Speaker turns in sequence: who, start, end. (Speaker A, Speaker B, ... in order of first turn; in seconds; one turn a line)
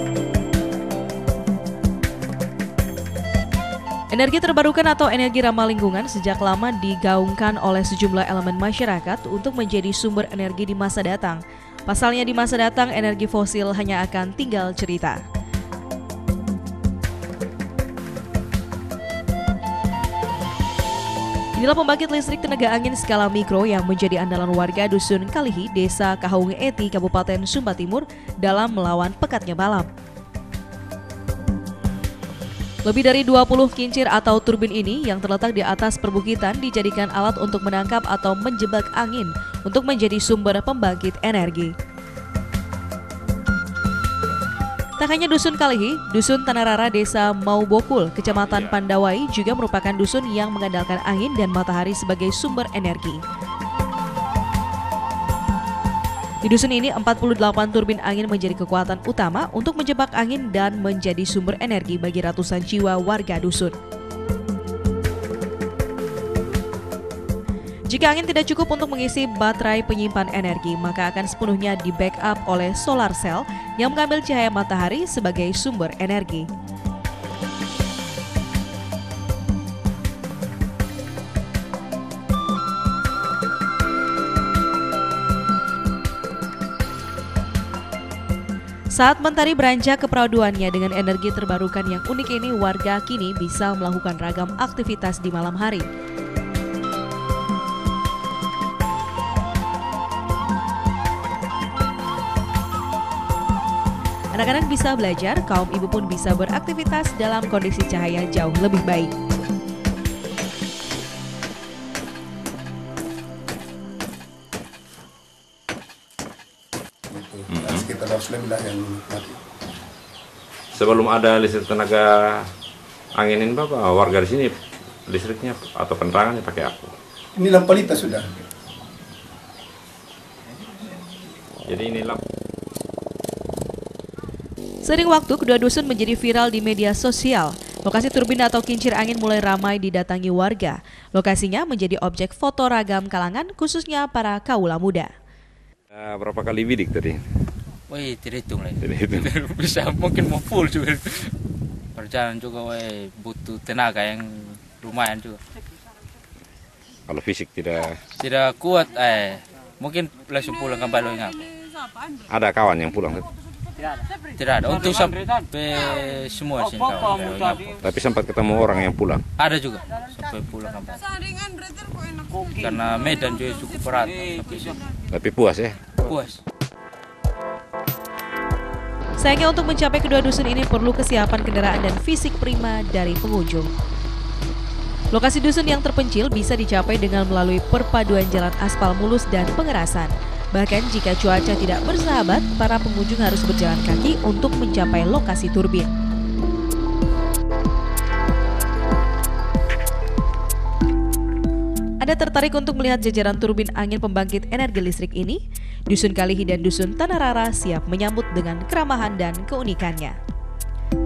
Speaker A: 4.1-15.2
Speaker A: 21.6-29.9
Speaker A: 32.9-41.7
Speaker A: 45.0-53.2
Speaker B: 48.4-48.8
Speaker A: 56.4-63.8
Speaker A: 67.9-76.5
Speaker A: 88.9-95.9
Speaker A: 104.3-109.1
Speaker C: 117.1-119.4
Speaker B: 120.7-122.5
Speaker B: 123.2-124.5
Speaker B: 125.1-126.9
Speaker C: 127.4-128.3
Speaker B: 131.7-132.2
Speaker A: 134.8-145.1
Speaker B: 145.9-147.2
Speaker D: 147.9-151.3
Speaker B: 148.8-149.3
Speaker D: 151.9-155.4
Speaker B: 157.1-158.0
Speaker D: 158.2-161.5
Speaker B: 162.3-163.3
Speaker D: 164.4-167.8
Speaker B: 167.8-169.2
Speaker D: 169.4-171.1
Speaker D: 172.5-174.8
Speaker B: 175.1-175.9
Speaker D: 176.0-176.4
Speaker A: 179.2-183.7
Speaker A: 185.1-195.9
Speaker A: 202.0-210.2